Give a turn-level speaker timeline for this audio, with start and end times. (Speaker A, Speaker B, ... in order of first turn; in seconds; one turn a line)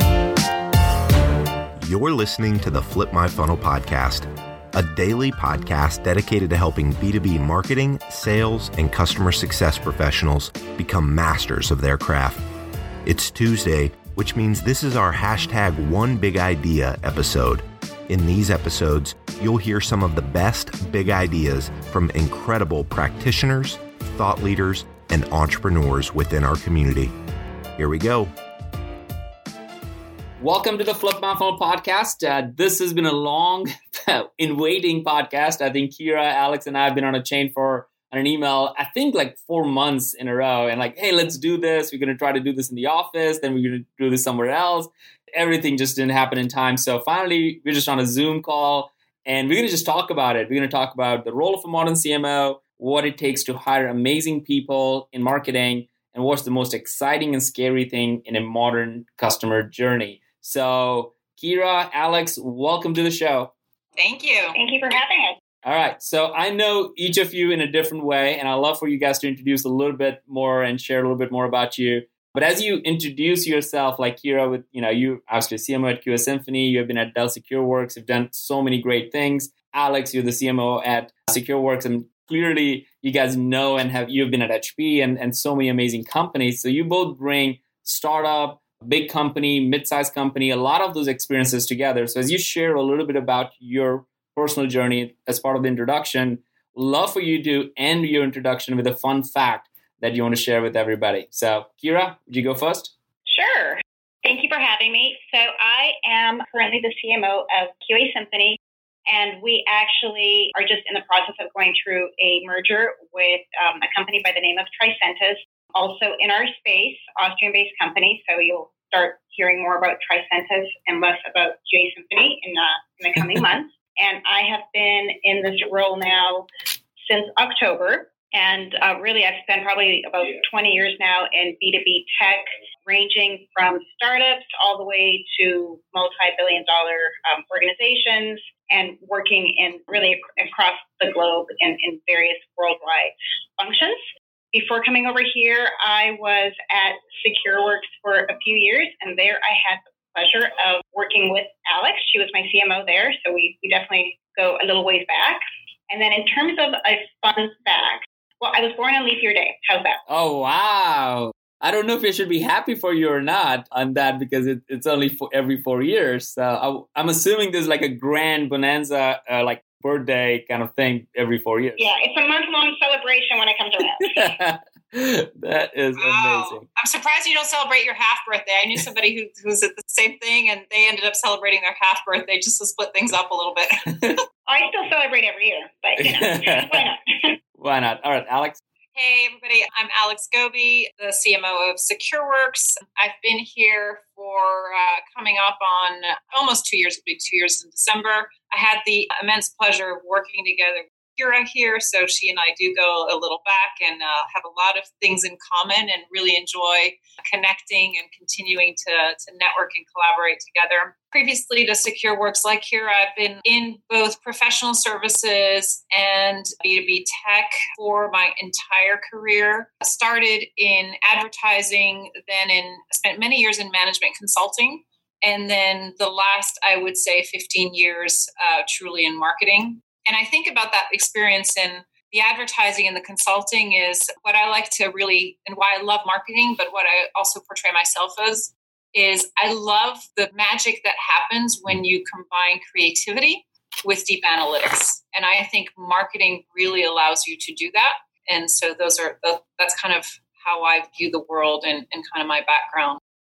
Speaker A: 1.8-12.4
Speaker A: 13.0-27.1
Speaker A: 27.8-28.3
Speaker B: 30.4-63.5
Speaker C: 64.0-64.6
Speaker D: 64.5-65.4
Speaker B: 65.6-102.9
Speaker D: 103.3-126.5
Speaker D: 127.0-144.0
Speaker D: 144.5-160.0
Speaker B: 160.1-171.9
Speaker D: 171.8-174.3
Speaker B: 174.0-176.6
Speaker C: 175.9-184.2
Speaker D: 184.4-187.3
Speaker B: 186.0-186.9
Speaker B: 187.6-188.6
Speaker C: 188.9-253.0